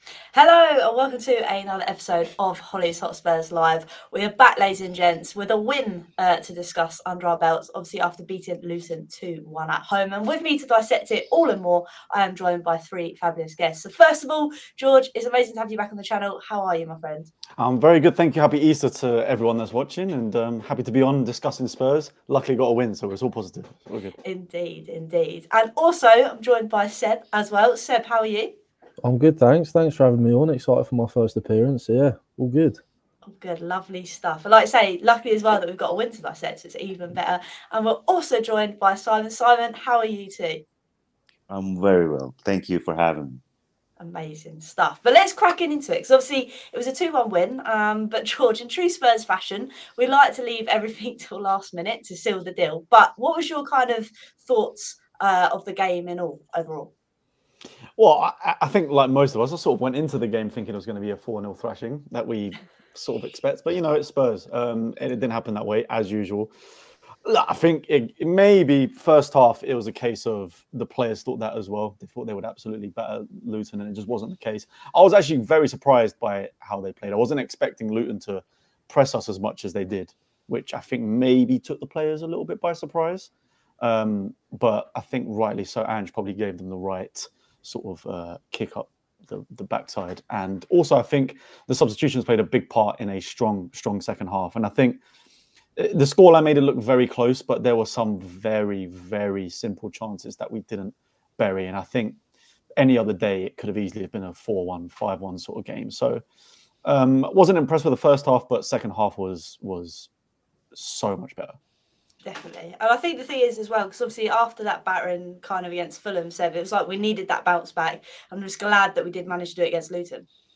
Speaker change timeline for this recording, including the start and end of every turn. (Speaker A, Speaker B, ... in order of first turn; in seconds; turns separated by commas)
Speaker A: 0.3-17.3, Speaker B: 17.6-24.1, Speaker A: 24.2-28.5, Speaker C: 29.0-32.8, Speaker A: 33.2-40.6, Speaker D: 41.5-43.4, Speaker A: 44.0-56.9, Speaker B: 58.0-66.5, Speaker B: 67.2-95.0, Speaker B: 95.8-102.2, Speaker B: 102.8-106.2, Speaker B: 106.8-110.1, Speaker B: 110.7-111.6, Speaker A: 112.2-120.3